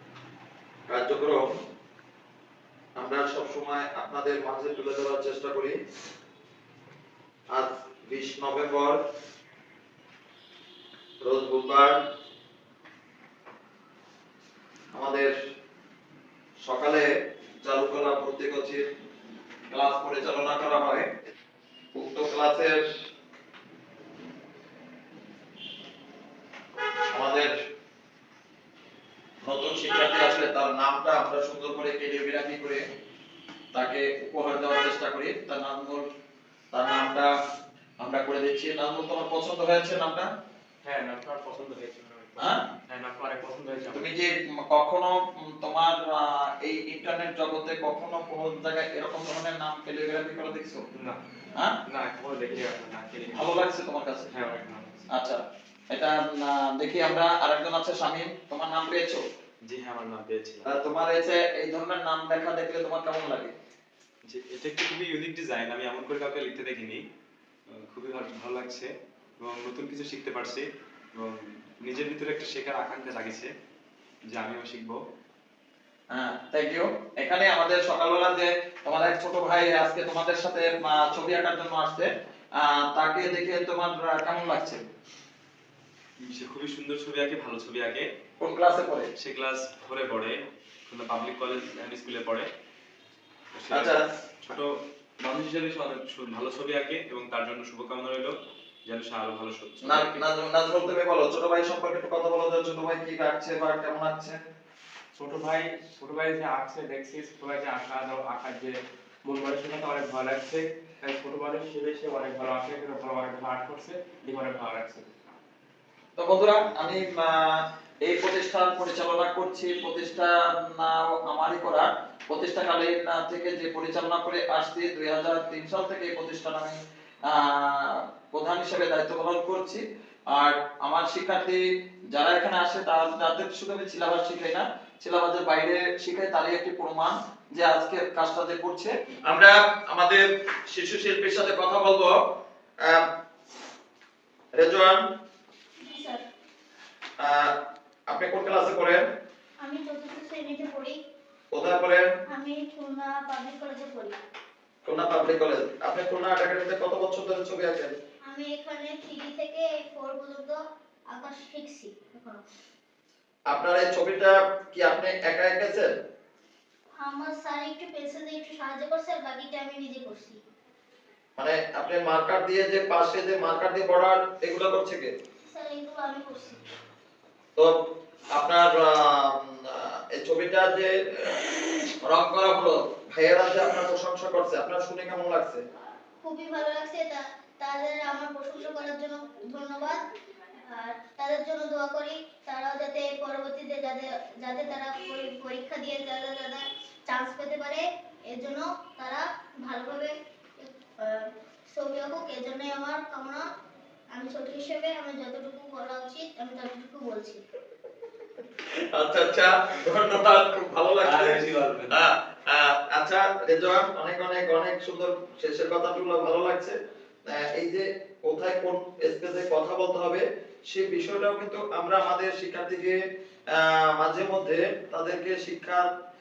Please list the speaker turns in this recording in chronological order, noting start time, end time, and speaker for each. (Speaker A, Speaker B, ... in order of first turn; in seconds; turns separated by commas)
Speaker A: 0.9-1.6, Speaker A: 3.0-5.8, Speaker A: 7.5-9.0, Speaker A: 11.2-12.0, Speaker A: 14.9-15.3, Speaker A: 16.6-17.1, Speaker A: 17.6-18.9, Speaker A: 19.7-21.1, Speaker A: 21.9-22.8, Speaker A: 27.1-27.6, Speaker A: 29.4-32.9, Speaker A: 33.7-36.1, Speaker A: 36.7-37.3, Speaker A: 38.0-40.3, Speaker B: 40.8-44.0, Speaker A: 43.9-50.8, Speaker B: 50.9-51.2, Speaker B: 51.9-53.5, Speaker A: 53.3-54.3, Speaker B: 54.3-55.1, Speaker A: 55.1-59.2, Speaker C: 59.7-60.8, Speaker A: 60.7-63.5, Speaker C: 64.3-67.0, Speaker C: 67.7-68.9, Speaker C: 69.4-70.6, Speaker C: 71.2-73.5, Speaker C: 74.3-75.0, Speaker A: 76.1-84.9, Speaker C: 86.2-88.1, Speaker A: 88.4-89.1, Speaker C: 89.2-92.5, Speaker C: 93.5-94.7, Speaker A: 93.7-94.0, Speaker C: 95.2-98.3, Speaker C: 98.9-100.2, Speaker A: 99.8-104.4, Speaker B: 105.2-115.1, Speaker A: 116.2-142.2, Speaker A: 144.6-145.0, Speaker D: 145.8-146.3, Speaker A: 147.2-147.5, Speaker A: 148.1-149.0, Speaker D: 149.6-151.0, Speaker A: 151.5-152.1, Speaker D: 152.3-154.2, Speaker A: 154.8-158.0, Speaker D: 158.2-160.6, Speaker D: 161.1-162.4, Speaker A: 163.5-165.9, Speaker D: 167.0-170.4, Speaker A: 171.4-175.1, Speaker D: 175.5-176.6, Speaker A: 178.3-181.4, Speaker A: 182.0-185.6, Speaker D: 186.2-190.0, Speaker D: 190.6-203.4, Speaker D: 204.1-207.4, Speaker A: 208.7-223.0, Speaker C: 211.1-211.8, Speaker A: 223.5-225.9